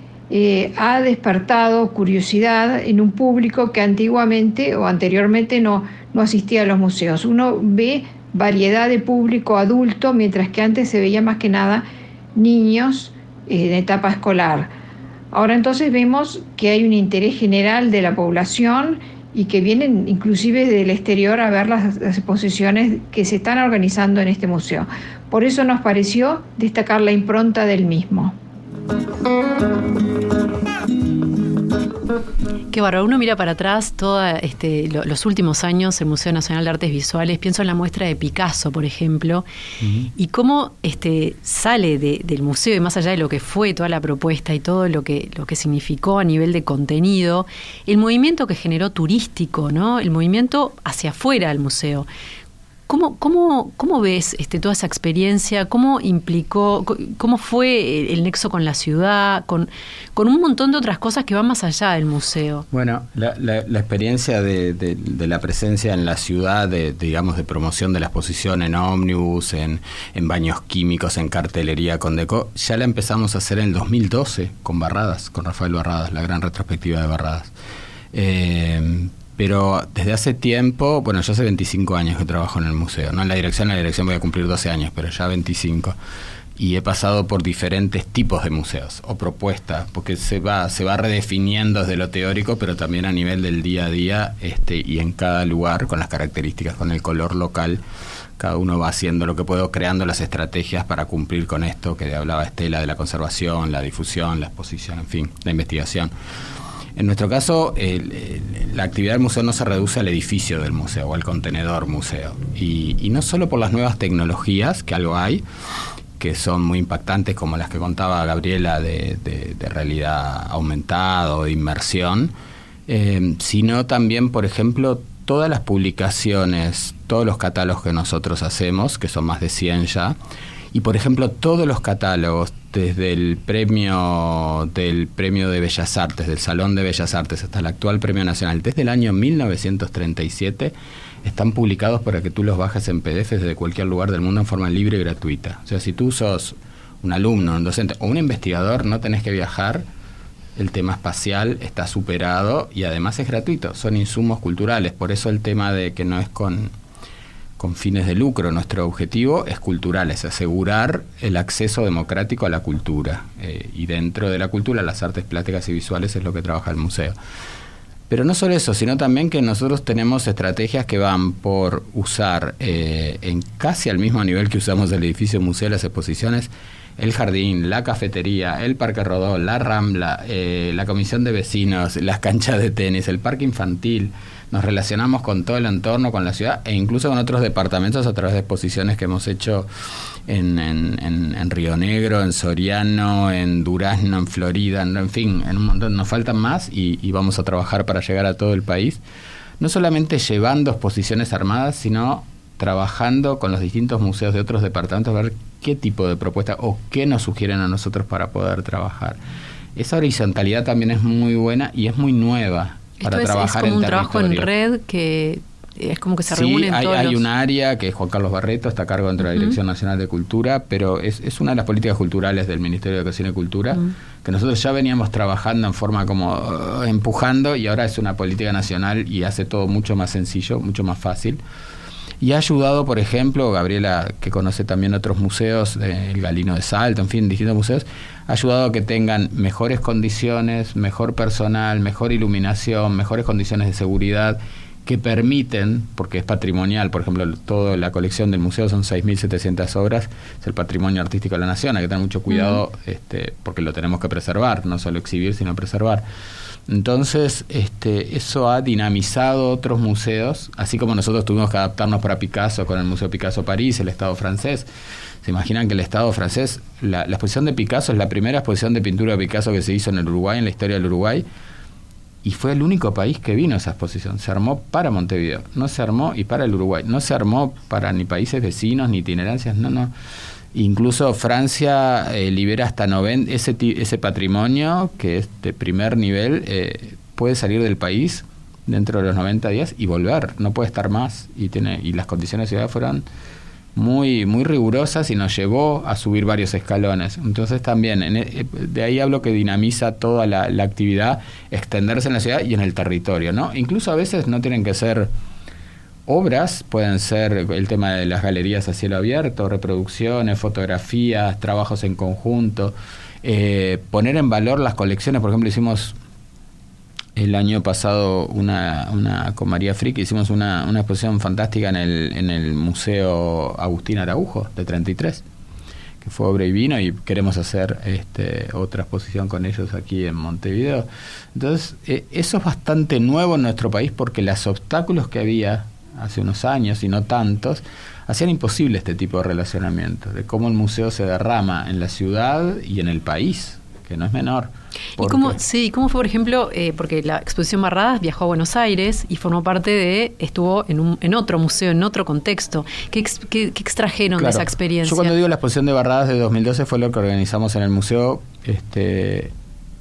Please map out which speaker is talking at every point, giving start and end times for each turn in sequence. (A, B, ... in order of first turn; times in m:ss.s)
0:00.3-0:14.7 A
0:15.3-0:28.4 A
0:32.7-0:39.4 B
0:39.8-0:40.1 C
0:40.2-0:52.1 B
0:52.9-1:02.7 B
1:02.7-1:17.5 C
1:18.1-1:26.0 C
1:26.6-1:37.8 C
1:38.4-1:46.1 C
1:47.0-1:55.4 C
1:56.2-2:02.3 C
2:02.9-2:10.2 C
2:10.7-2:29.8 C
2:30.6-2:36.7 C
2:37.6-2:47.1 C
2:48.1-3:09.7 C
3:10.3-3:19.0 C
3:19.6-3:29.2 C
3:29.8-3:34.5 C
3:33.0-3:37.2 B
3:36.3-3:51.4 C
3:39.2-3:39.6 B
3:52.2-4:16.0 C
4:12.3-4:12.6 B
4:16.7-4:24.7 C
4:25.2-4:31.2 C
4:32.2-4:39.9 C
4:40.5-4:53.0 C
4:53.8-5:05.1 C
5:06.1-5:16.0 C
5:17.2-5:25.2 C
5:26.0-5:45.4 C
5:45.0-5:55.1 B
5:54.1-5:59.3 C